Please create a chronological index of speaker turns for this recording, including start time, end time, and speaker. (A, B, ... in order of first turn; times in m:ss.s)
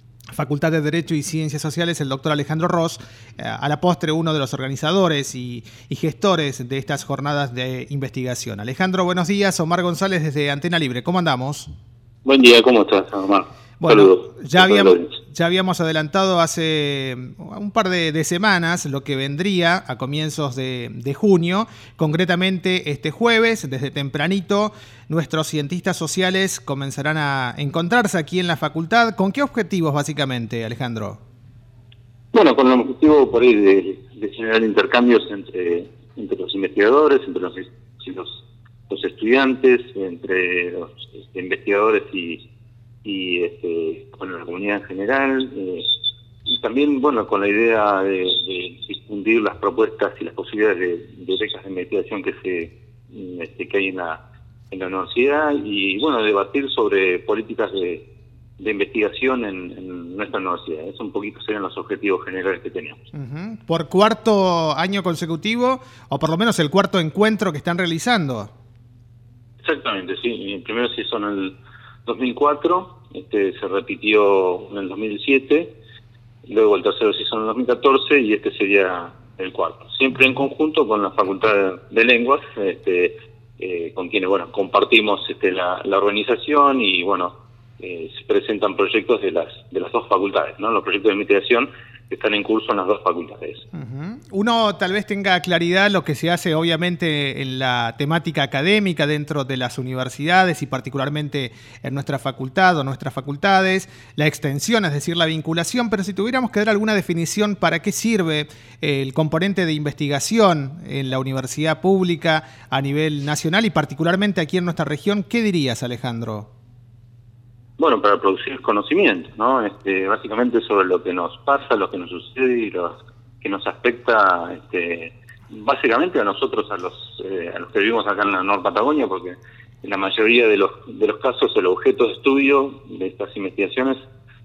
0:00.3-0:11.7 A
0:12.2-0:15.1 B
0:13.8-0:31.2 A
0:32.3-0:42.4 B
0:43.0-0:45.9 B
0:46.5-0:58.0 B
0:58.6-1:03.0 B
1:03.1-1:08.5 A
1:09.6-1:11.5 B
1:12.1-1:15.7 B
1:16.5-1:33.6 B
1:33.7-1:56.5 A
1:57.8-2:14.1 B